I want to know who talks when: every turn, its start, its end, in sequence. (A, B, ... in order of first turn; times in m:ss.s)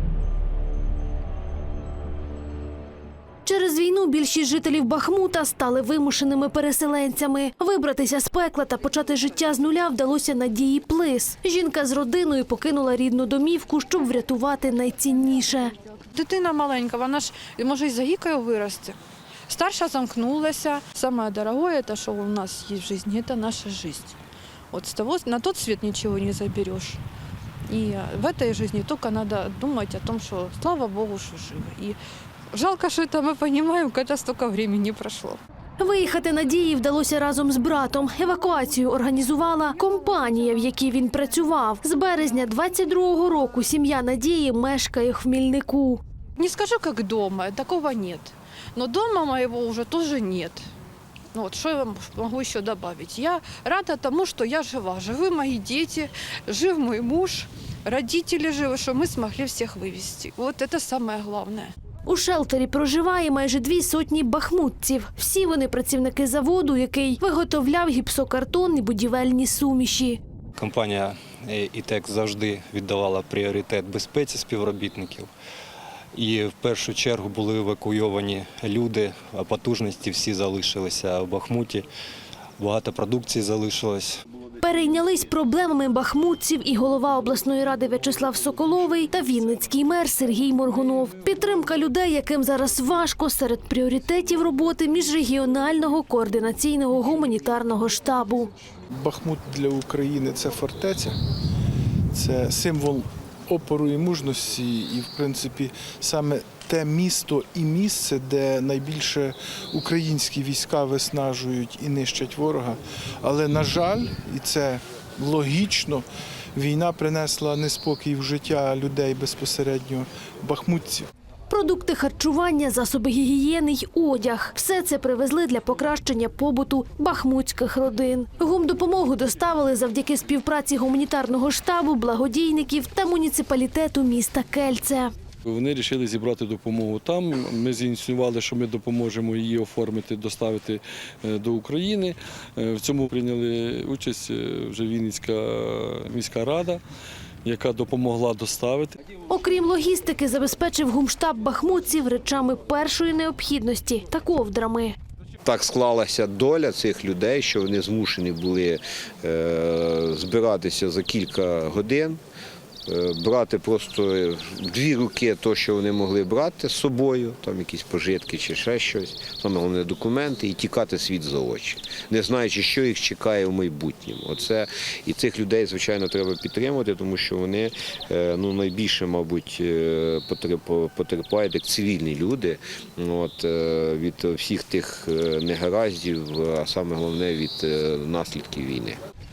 0:03.4-0:15.7 A
0:16.1-0:19.0 B
0:19.5-0:24.2 B
0:24.7-0:27.0 B
0:27.7-0:32.0 B
0:32.5-0:35.4 B
0:35.8-0:46.0 A
0:46.4-0:50.6 B
0:51.3-1:01.7 B
1:02.0-1:10.2 A
1:10.6-1:15.3 C
1:16.1-1:21.8 C
1:22.6-1:24.2 C
1:24.6-1:38.5 A
1:39.0-1:41.2 D
1:42.1-2:01.1 D
2:01.5-2:15.1 A
2:15.5-2:26.8 E
2:27.4-2:29.0 E
2:29.3-2:35.0 A
2:35.4-2:42.2 F
2:42.8-3:09.0 F